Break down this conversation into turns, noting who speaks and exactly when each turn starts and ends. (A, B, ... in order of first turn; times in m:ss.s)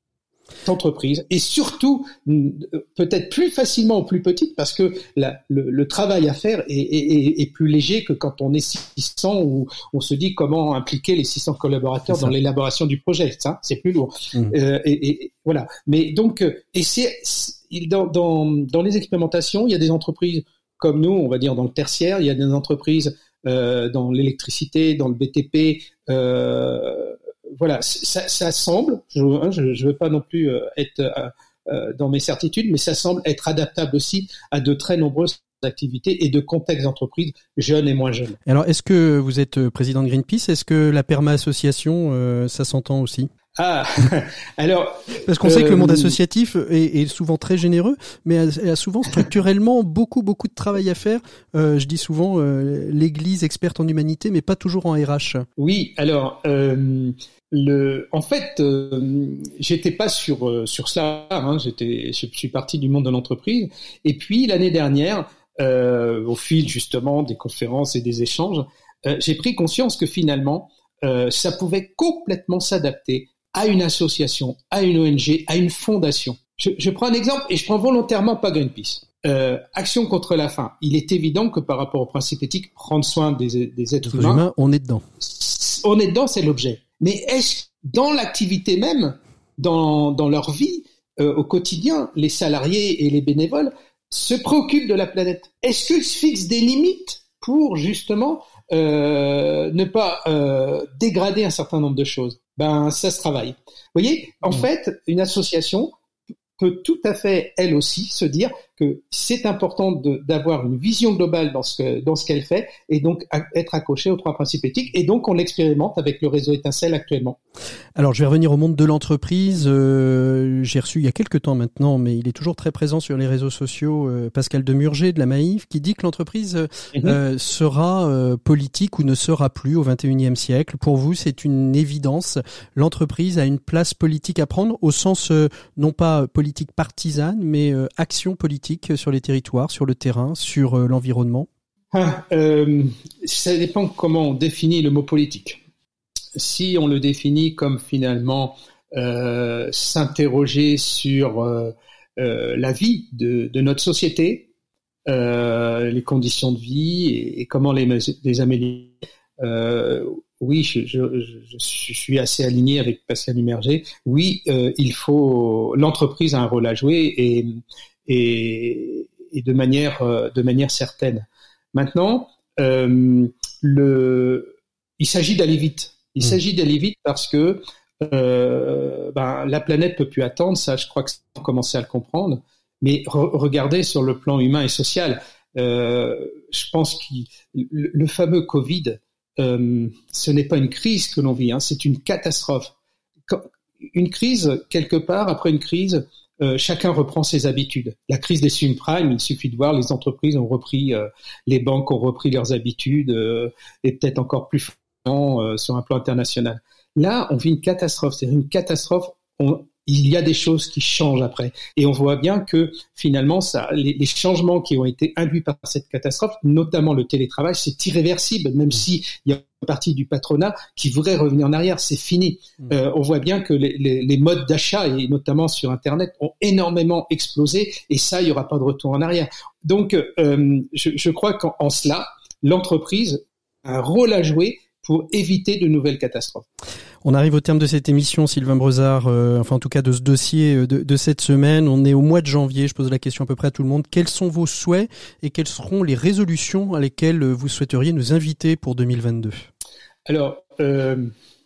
0:00.6-0:38.4 A
0:38.4-0:43.3 B
0:43.6-0:46.1 A
0:45.2-0:55.4 B
0:55.6-1:24.4 A
1:24.0-1:25.0 B
1:25.2-1:45.9 A
1:46.6-1:57.4 A
1:58.0-2:21.5 B
2:21.9-2:25.6 A
2:26.4-2:34.5 A
2:35.1-3:12.7 A
3:13.3-3:56.4 A
3:57.0-4:09.5 B
4:10.1-4:11.1 A